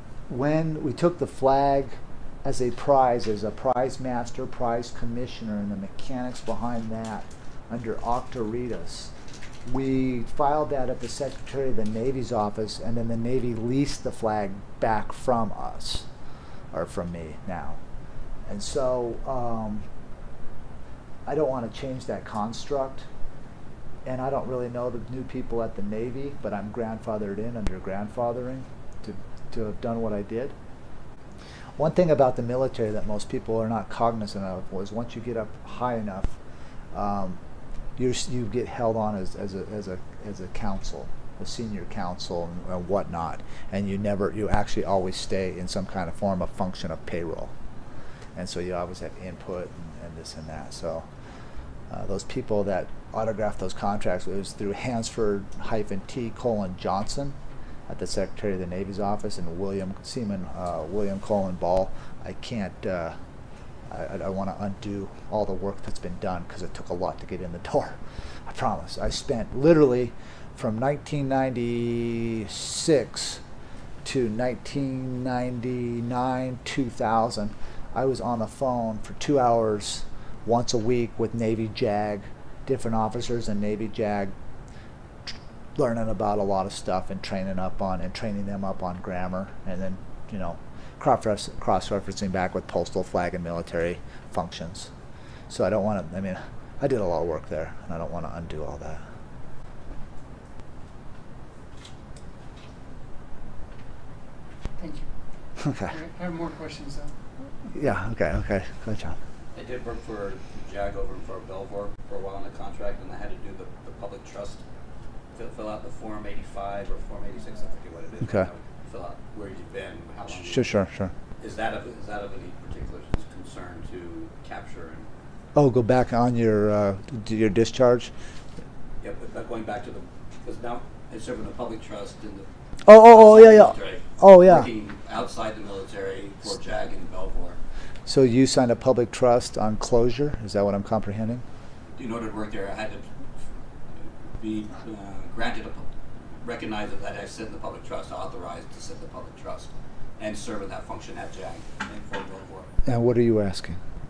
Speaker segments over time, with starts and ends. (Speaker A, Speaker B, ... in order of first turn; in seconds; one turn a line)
Speaker A: 0.3-9.1
Speaker A: 9.7-16.1
Speaker A: 16.7-17.8
Speaker A: 18.5-19.9
Speaker A: 21.3-23.1
Speaker A: 24.1-30.6
Speaker A: 31.8-36.4
Speaker A: 36.9-37.4
Speaker A: 38.0-47.5
Speaker A: 48.4-51.1
Speaker A: 51.9-57.4
Speaker A: 57.9-63.2
Speaker A: 63.9-73.4
Speaker A: 74.0-84.3
Speaker A: 85.3-94.9
Speaker A: 95.5-99.0
Speaker B: 104.8-105.1
Speaker A: 105.6-105.9
Speaker B: 105.8-107.7
Speaker A: 107.7-109.2
Speaker C: 109.5-114.6
Speaker C: 115.3-120.7
Speaker A: 118.2-118.5
Speaker A: 120.3-121.1
Speaker C: 121.4-125.1
Speaker A: 125.5-128.1
Speaker C: 129.0-137.6
Speaker A: 132.9-134.7
Speaker A: 138.1-141.4
Speaker C: 142.0-143.0
Speaker C: 144.4-145.9
Speaker C: 146.4-152.7
Speaker A: 152.9-153.8